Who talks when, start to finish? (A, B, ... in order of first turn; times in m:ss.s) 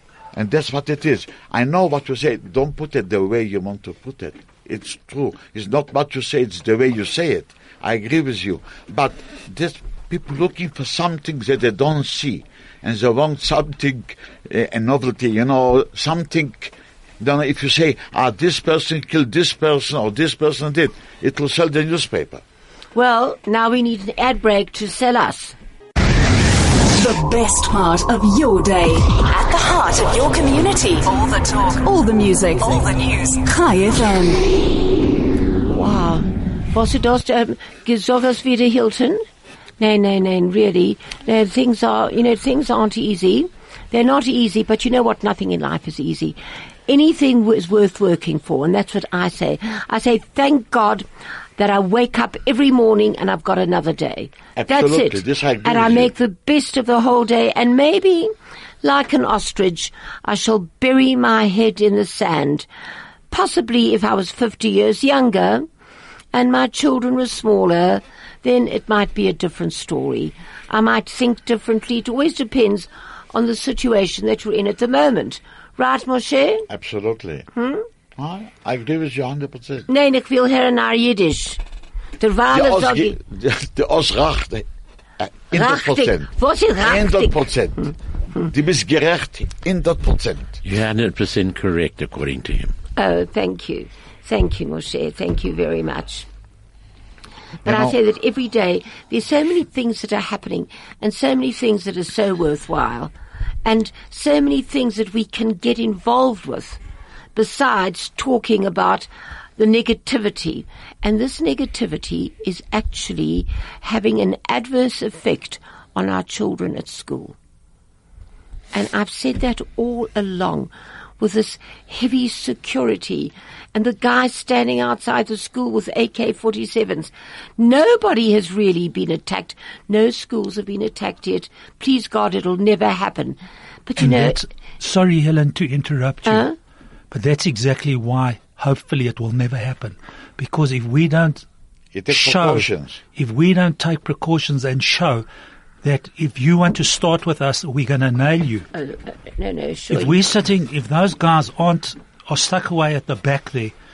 0:00.3-0:22.4 A
0:22.9-0:25.5 B
0:26.9-0:34.4 C
0:35.7-0:39.2 B
0:39.8-0:51.0 B
0:51.6-1:02.7 B
0:54.6-0:56.1 A
1:03.3-1:05.7 B
1:06.3-1:16.7 B
1:16.7-1:17.5 A
1:17.5-1:17.8 B
1:18.2-1:19.9 A
1:19.9-1:21.6 B
1:22.2-1:23.2 B
1:22.5-1:24.6 A
1:25.2-1:30.6 A
1:25.5-1:27.9 B
1:30.6-1:32.7 D
1:33.0-1:36.2 B
1:37.6-1:37.9 A
1:37.6-1:43.1 B
1:43.6-1:46.8 B
1:47.3-1:57.3 B
1:58.7-2:14.4 B
2:14.0-2:16.5 E
2:16.2-2:16.5 B
2:17.1-2:21.4 E
2:21.9-2:23.0 A
2:22.1-2:25.2 E
2:25.8-2:28.6 E
2:28.7-2:30.2 B
2:29.9-2:33.7 E